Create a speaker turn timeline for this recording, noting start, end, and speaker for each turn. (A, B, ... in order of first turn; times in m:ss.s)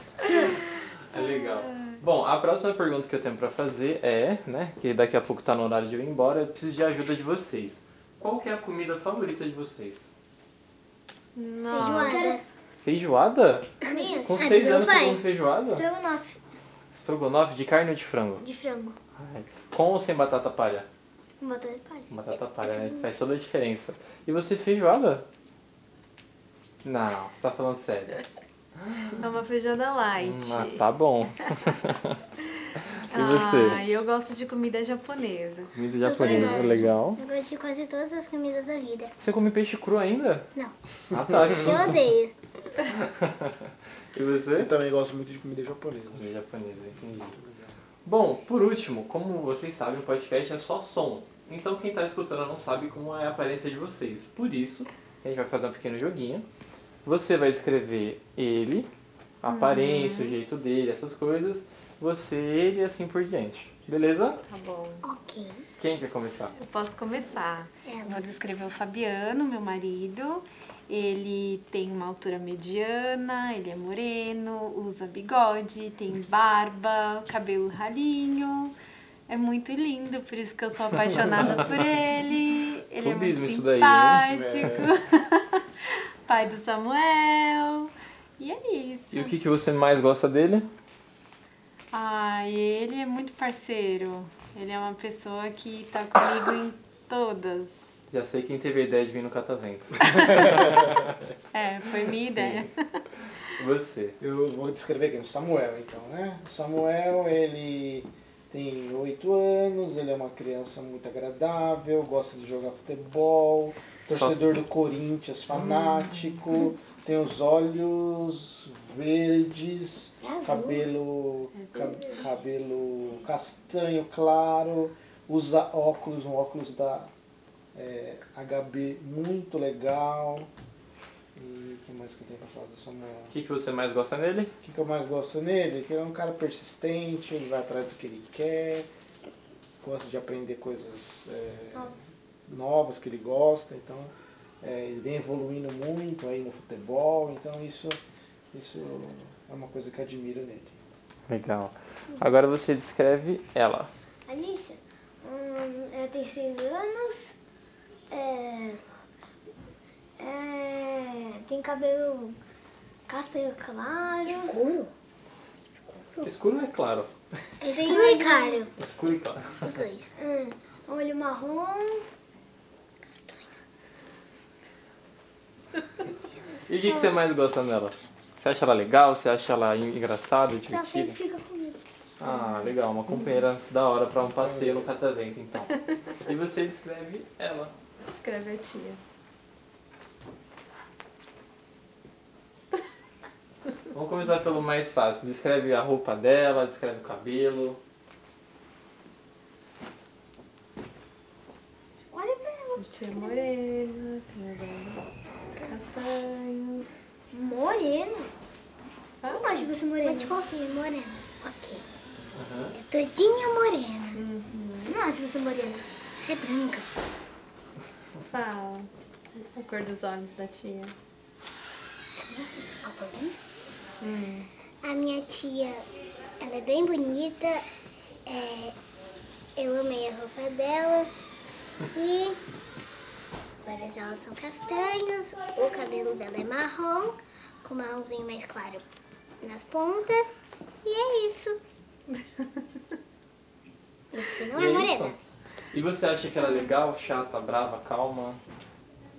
0:00.2-0:00.6 A
0:00.4-0:10.1 B
0:01.4-0:02.0 A
0:11.3-0:12.4 A
0:11.7-0:12.4 C
0:11.8-0:12.4 D
0:12.8-0:13.7 B
0:13.8-0:16.4 D
0:13.9-0:15.1 C
0:14.2-0:15.8 B
0:16.9-0:18.4 B
0:18.4-0:19.0 D
0:19.2-0:20.9 B
0:21.4-0:22.2 D
0:22.1-0:25.2 B
0:22.6-0:23.0 C
0:26.8-0:28.2 B
0:29.2-0:30.9 A
0:30.2-0:32.2 B
0:33.0-0:35.7 A
0:33.0-0:33.8 B
0:35.7-0:37.2 B
0:36.0-0:39.1 C
0:39.2-0:40.5 B
0:41.1-0:42.1 B
0:41.4-0:42.3 C
0:43.0-0:43.6 B
0:44.1-0:44.7 B
0:44.5-0:46.3 E
0:46.1-0:47.4 B
0:47.2-0:47.7 E
0:48.0-0:56.4 B
0:57.0-0:58.9 B
0:59.4-1:04.4 B
0:59.4-1:00.4 A
1:04.4-1:05.0 A
1:05.0-1:05.6 C
1:05.8-1:06.5 B
1:06.6-1:18.7 A
1:07.8-1:08.3 C
1:19.3-1:29.3 A
1:23.0-1:24.3 B
1:24.3-1:24.9 E
1:29.1-1:30.7 B
1:31.9-1:37.9 A
1:38.1-1:41.1 B
1:40.0-1:40.4 A
1:41.5-1:43.0 A
1:42.2-1:42.7 B
1:43.6-1:44.2 B
1:44.2-2:07.1 E
1:54.1-1:54.4 B
1:55.7-1:56.2 B
2:00.3-2:00.8 C
2:01.7-2:02.1 A
2:07.7-2:10.5 E
2:11.3-2:13.3 E
2:13.3-2:14.5 B
2:14.6-2:18.9 E
2:19.8-2:21.9 E
2:22.5-2:28.0 E
2:28.5-2:30.8 E
2:31.3-2:33.9 B
2:34.3-2:37.3 D
2:38.1-2:38.8 D
2:40.2-2:42.4 D
2:43.1-2:44.6 D
2:44.2-2:44.9 C
2:45.7-2:46.3 C
2:46.2-2:47.1 B
2:47.6-2:48.7 C
2:47.6-2:48.7 D
2:48.8-2:49.8 B
2:49.6-2:50.1 C
2:50.2-2:52.1 D
2:53.0-2:53.5 C
2:56.7-3:01.2 B
2:56.8-2:57.2 D
3:00.6-3:01.8 D
3:02.2-3:07.7 B
3:02.2-3:02.7 A
3:04.4-3:04.8 E
3:08.2-3:09.0 A
3:13.9-3:17.8 B
3:22.1-3:23.5 D
3:22.7-3:25.1 A
3:25.7-3:26.9 A
3:27.3-3:28.3 D
3:29.2-3:29.7 A
3:29.2-3:30.4 D
3:30.0-3:31.8 C
3:32.3-3:32.7 B
3:32.7-3:34.2 C
3:34.1-3:34.9 A
3:34.8-3:35.9 D
3:36.2-3:36.9 C
3:38.2-3:40.9 A
3:42.2-3:43.4 C
3:44.0-3:44.5 A
3:44.8-3:45.8 C
3:46.4-3:47.6 C
3:48.2-3:48.8 C
3:49.6-3:51.1 C
3:51.9-3:52.4 C
3:53.6-3:58.8 C
3:59.4-4:01.6 C
4:04.1-4:05.2 C
4:04.5-4:05.2 B
4:05.7-4:08.4 B